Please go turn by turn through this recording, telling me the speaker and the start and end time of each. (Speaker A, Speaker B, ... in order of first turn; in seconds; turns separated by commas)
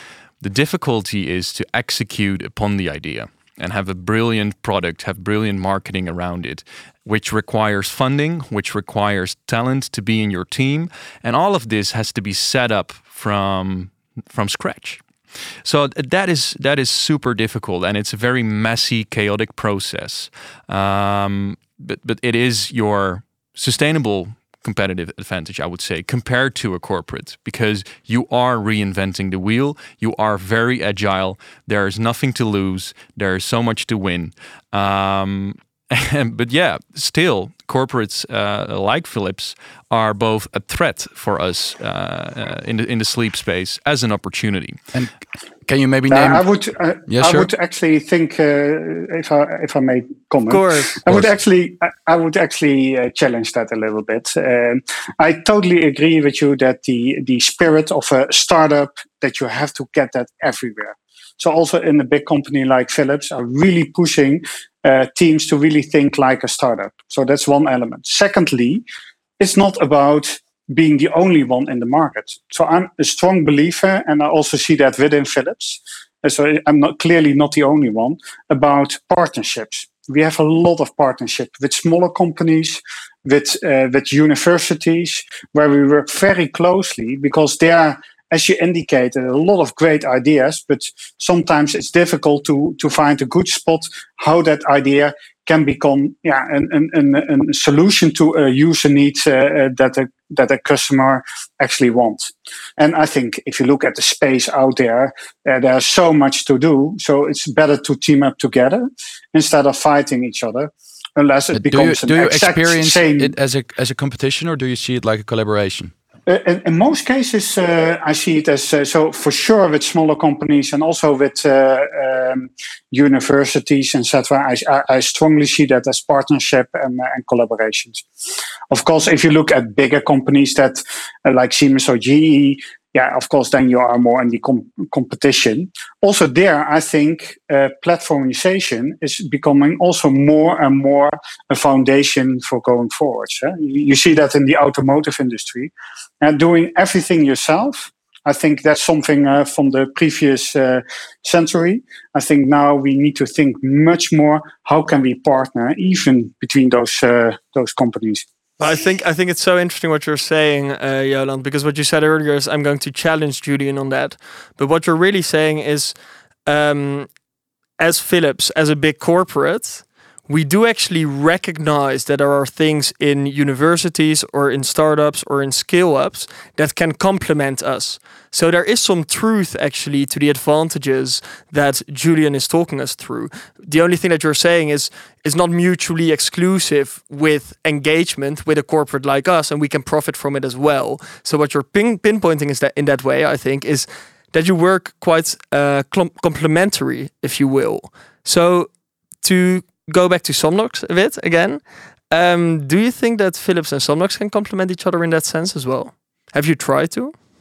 Speaker A: 0.4-15.0, Speaker A: 15.6-44.8, Speaker B: 45.6-46.4, Speaker C: 46.1-68.8, Speaker B: 47.1-47.5, Speaker D: 50.5-51.0, Speaker C: 69.4-113.3, Speaker B: 111.5-115.9, Speaker C: 116.3-128.0, Speaker C: 128.7-158.2, Speaker D: 158.6-165.9, Speaker D: 166.4-167.1, Speaker D: 167.8-198.7, Speaker D: 199.2-207.1